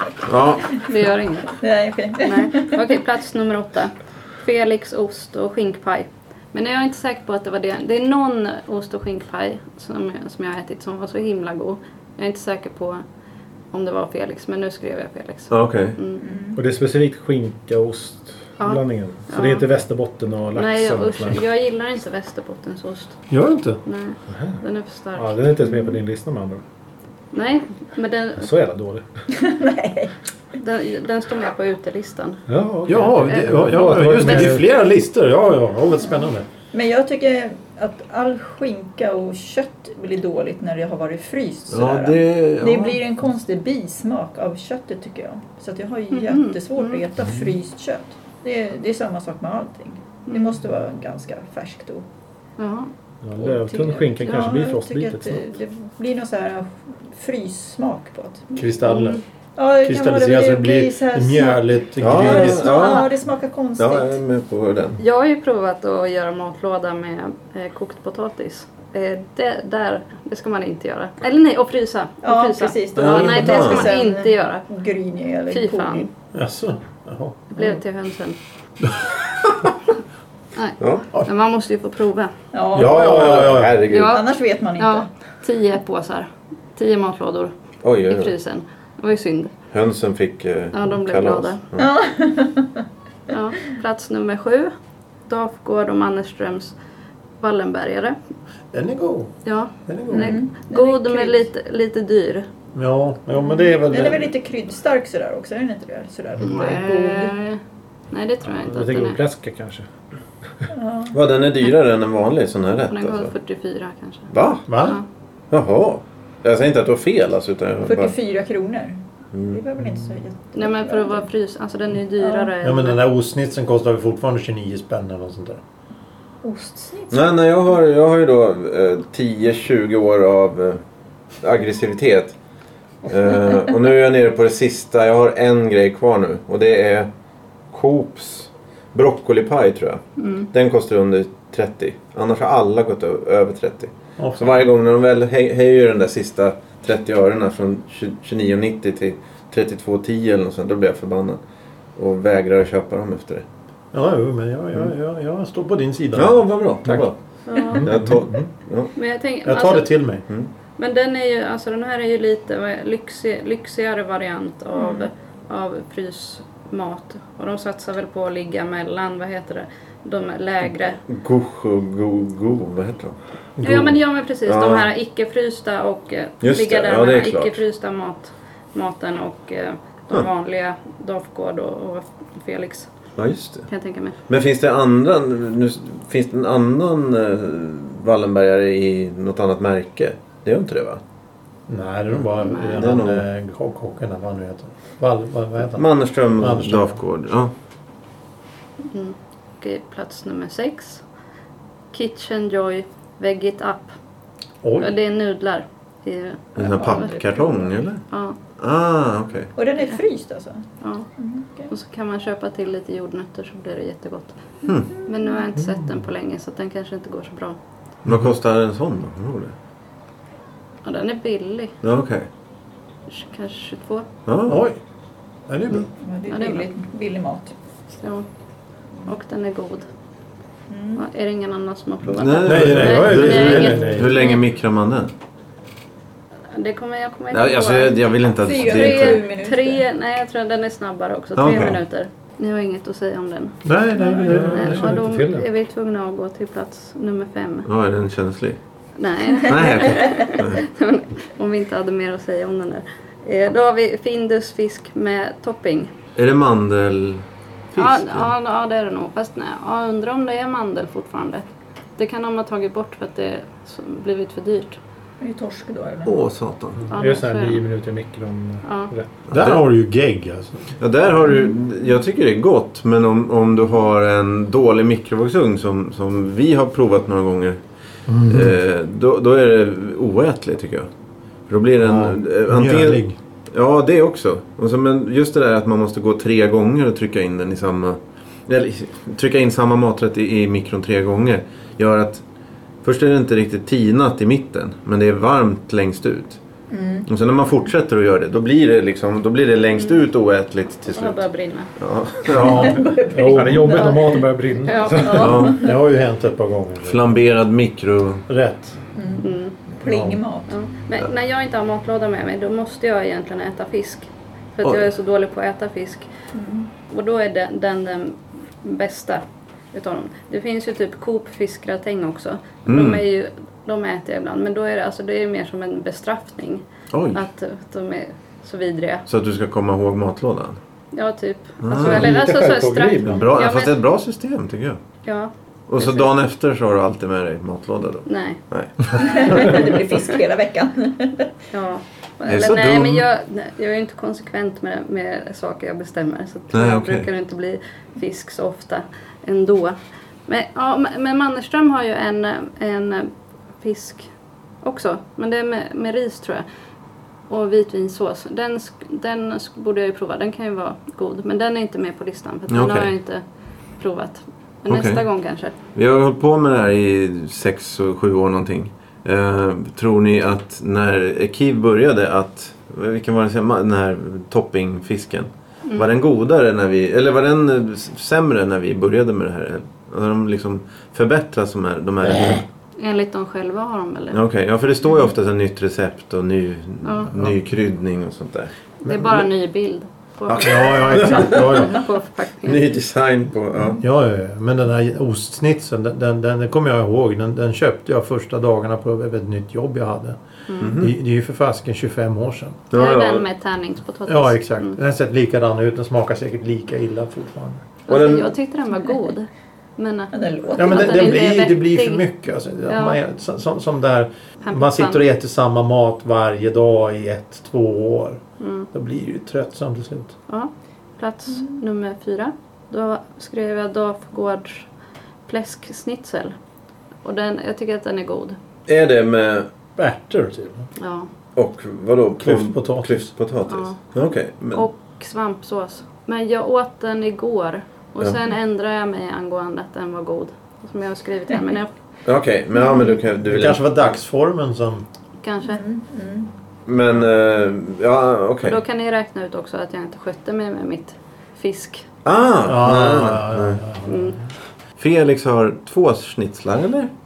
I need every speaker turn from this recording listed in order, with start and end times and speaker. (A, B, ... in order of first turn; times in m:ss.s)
0:00.2-0:00.8 A
0:00.8-0:01.6 B
0:01.6-0:02.8 C
0:02.2-0:13.0 B
0:13.7-0:16.2 B
0:15.5-0:16.0 A
0:16.2-0:16.6 C
0:16.6-0:21.4 D
0:18.6-0:19.7 B
0:20.5-0:23.2 B
0:23.3-0:23.8 E
0:23.8-0:25.9 B
0:24.3-0:24.6 D
0:25.1-0:26.6 D
0:27.3-0:28.5 B
0:28.4-0:29.0 D
0:29.3-0:30.1 C
0:30.5-0:32.4 B
0:32.5-0:34.7 D
0:32.9-0:36.4 E
0:33.2-0:33.8 B
0:36.0-0:52.0 C
0:41.7-0:43.0 A
0:46.1-0:47.0 B
0:47.2-0:47.5 D
0:50.3-0:50.6 B
0:52.6-0:52.9 B
0:53.2-0:55.4 D
0:53.6-0:58.6 C
0:58.6-0:59.2 E
0:58.8-0:59.2 B
0:59.6-1:04.2 C
0:59.8-1:03.0 E
1:02.0-1:03.2 A
1:03.8-1:05.0 A
1:05.0-1:14.6 B
1:12.2-1:16.1 C
1:13.0-1:13.9 A
1:15.5-1:16.1 B
1:16.3-1:17.4 E
1:17.5-1:18.4 B
1:20.5-1:22.3 B
1:20.8-1:21.0 A
1:22.5-1:25.1 C
1:22.7-1:23.8 E
1:22.7-1:24.2 A
1:23.9-1:27.5 B
1:27.8-1:28.3 A
1:28.0-1:29.5 B
1:29.7-1:31.9 A
1:30.7-1:31.6 B
1:31.8-1:32.8 C
1:33.3-1:34.7 B
1:35.3-1:36.8 B
1:37.4-1:38.2 B
1:38.7-1:39.3 E
1:39.4-1:42.5 B
1:39.9-1:40.4 E
1:40.1-1:41.4 C
1:42.7-1:44.3 E
1:43.9-1:47.4 C
1:46.4-1:49.2 B
1:48.5-1:49.9 D
1:50.7-1:51.2 C
1:51.1-1:53.3 A
1:52.9-1:55.0 B
1:54.3-1:54.7 A
1:54.7-1:55.0 E
1:55.5-1:58.1 A
1:57.8-2:01.2 C
1:59.3-1:59.6 A
2:00.5-2:03.0 B
2:02.2-2:02.5 C
2:02.6-2:05.6 E
2:06.4-2:07.3 C
2:07.1-2:10.8 A
2:11.4-2:12.3 A
2:13.0-2:17.1 A
2:17.7-2:31.4 A
2:20.2-2:20.5 B
2:24.2-2:24.6 E
2:32.0-2:33.4 A
2:33.9-2:37.0 E
2:36.1-2:37.1 A
2:37.5-2:37.9 B
2:37.7-2:38.4 D
2:37.8-2:38.9 A
2:38.9-2:39.9 B
2:39.4-2:40.2 E
2:40.8-2:51.0 B
2:44.7-2:45.1 C
2:51.1-2:53.2 A
2:53.6-2:53.9 D
2:53.6-3:02.9 B
2:54.4-2:54.9 A
2:56.4-2:57.6 A
3:03.2-3:03.7 A
3:03.7-3:04.2 B
3:04.3-3:11.0 A
3:11.7-3:16.9 E
3:12.4-3:12.8 B
3:12.7-3:13.2 A
3:15.7-3:17.5 A
3:18.9-3:21.0 B
3:21.9-3:23.9 B
3:24.6-3:24.9 E
3:24.8-3:27.5 B
3:26.6-3:28.0 A
3:26.7-3:27.7 C
3:28.1-3:28.4 B
3:28.6-3:29.5 A
3:29.6-3:30.6 C
3:30.8-3:31.1 B
3:31.2-3:31.7 C
3:31.7-3:34.4 B
3:34.6-3:34.9 A
3:34.9-3:37.6 B
3:38.0-3:39.5 A
3:40.8-3:41.8 B
3:41.8-3:42.3 A
3:43.1-3:44.1 B
3:44.2-3:44.6 A
3:44.5-3:44.8 E
3:45.5-3:45.9 E
3:45.7-3:46.7 B
3:46.0-3:47.5 C
3:48.0-3:48.3 B
3:49.0-3:49.9 B
3:50.7-3:51.0 C
3:50.9-3:54.4 B
3:52.1-3:55.1 A
3:52.4-3:54.1 E
3:56.5-4:07.7 B
3:57.3-3:59.2 A
3:58.4-3:59.8 C
4:01.4-4:01.8 A
4:03.6-4:04.9 E
4:04.0-4:04.2 C
4:04.2-4:05.5 D
4:07.6-4:08.6 A
4:09.0-4:15.9 B
4:09.4-4:10.6 A
4:16.2-4:18.3 A
4:17.8-4:24.8 B
4:25.2-4:26.1 C
4:26.0-4:26.8 A
4:26.9-4:27.6 B
4:26.9-4:29.1 D
4:28.6-4:28.9 B
4:29.3-4:29.6 A
4:29.3-4:30.7 E
4:30.8-4:37.6 A
4:38.1-4:38.6 E
4:38.3-4:40.9 A
4:41.5-4:52.2 A
4:41.8-4:43.2 E
4:52.8-4:56.4 A
4:56.7-4:57.1 C
4:57.0-5:01.2 A
4:59.8-5:00.1 B
5:00.9-5:01.7 B
5:01.8-5:02.8 A
5:02.3-5:02.8 E
5:02.3-5:04.2 C
5:03.1-5:05.5 D
5:03.5-5:05.5 B
5:05.0-5:05.8 C
5:05.1-5:05.6 A
5:05.5-5:07.1 E
5:06.8-5:08.2 A
5:08.3-5:08.8 E
5:09.0-5:09.3 C
5:09.2-5:09.6 B
5:09.8-5:10.2 E
5:09.8-5:10.5 C
5:10.5-5:16.1 B
5:16.3-5:16.7 C
5:16.9-5:29.0 B
5:22.6-5:23.0 A
5:26.9-5:27.2 A
5:29.1-5:30.6 A
5:30.9-5:33.8 B
5:31.6-5:32.1 A
5:31.8-5:33.2 D
5:33.1-5:34.8 A
5:35.0-5:36.1 B
5:35.7-5:39.7 A
5:38.0-5:38.4 B
5:38.9-5:41.3 C
5:41.5-5:54.1 B
5:42.3-5:43.0 A
5:46.5-5:47.1 A
5:54.6-5:56.4 B
5:57.3-6:03.2 B
6:02.5-6:02.9 A
6:03.8-6:05.5 B
6:04.7-6:05.0 A
6:05.7-6:22.4 A
6:22.0-6:22.4 E
6:22.8-6:24.2 B
6:24.1-6:28.5 A
6:26.8-6:27.1 B
6:28.8-6:29.3 E
6:28.8-6:32.7 B
6:30.3-6:31.7 A
6:30.4-6:31.9 E
6:32.4-6:33.8 A
6:33.8-6:42.6 E
6:40.5-6:40.8 B
6:40.6-6:40.9 A
6:42.7-6:43.2 A
6:42.7-6:44.8 B
6:44.1-6:47.6 E
6:47.9-6:52.0 B
6:47.9-6:48.3 A
6:50.1-6:51.2 C
6:50.6-6:58.2 E
6:52.7-6:53.0 B
6:54.4-6:55.0 B
6:58.4-6:58.7 B
6:58.7-7:00.1 E
7:00.3-7:04.7 B
7:05.2-7:06.3 B
7:07.0-7:08.4 B
7:08.7-7:09.5 A
7:09.8-7:10.6 E
7:10.8-7:11.1 B
7:11.4-7:14.6 A
7:12.2-7:13.1 E
7:13.5-7:13.8 B
7:14.5-7:21.7 B
7:22.0-7:23.6 A
7:23.2-7:24.8 E
7:25.2-7:25.6 B
7:25.4-7:26.3 C
7:26.7-7:28.6 A
7:28.4-7:31.9 B
7:32.0-7:33.6 A
7:32.4-7:34.2 E
7:33.8-7:34.2 B
7:34.8-7:36.9 A